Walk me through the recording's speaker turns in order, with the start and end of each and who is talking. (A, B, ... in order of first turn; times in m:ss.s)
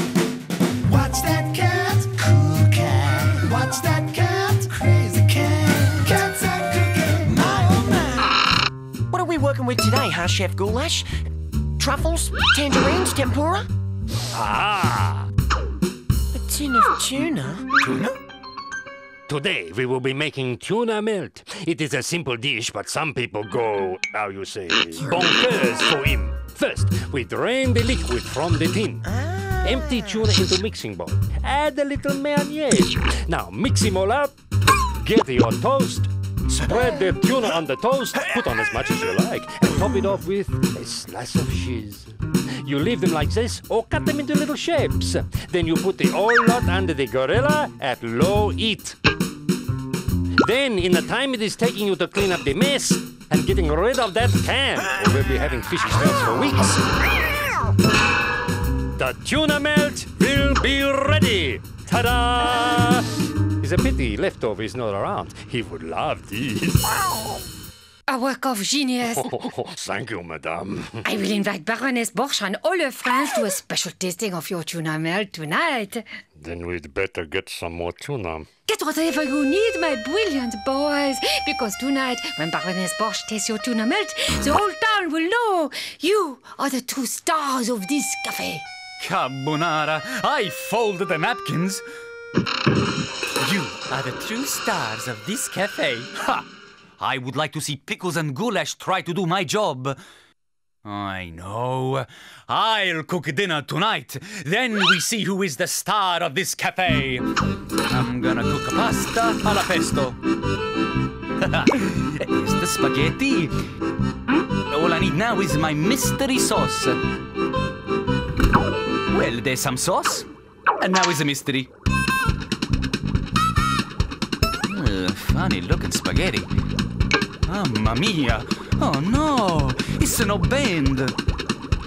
0:00.8-0:08.3 A
0:09.1-0:11.1 B
0:11.8-0:13.7 B
0:14.3-0:15.3 C
0:16.3-0:18.2 B
0:19.3-0:29.1 C
0:29.1-0:30.2 B
0:29.6-0:34.4 C
0:35.0-0:49.0 C
0:50.4-0:56.8 C
0:59.0-1:06.9 C
1:08.1-1:09.3 D
1:09.1-1:11.0 C
1:11.0-1:16.0 D
1:16.4-1:18.5 C
1:18.7-1:28.6 D
1:29.0-1:31.8 E
1:33.4-1:36.4 E
1:37.0-1:40.0 E
1:40.8-1:47.3 E
1:47.9-1:50.2 E
1:51.4-1:53.6 E
1:54.7-1:57.0 E
1:59.1-2:00.3 E
2:00.8-2:01.7 E
2:04.6-2:06.5 E
2:07.5-2:11.2 E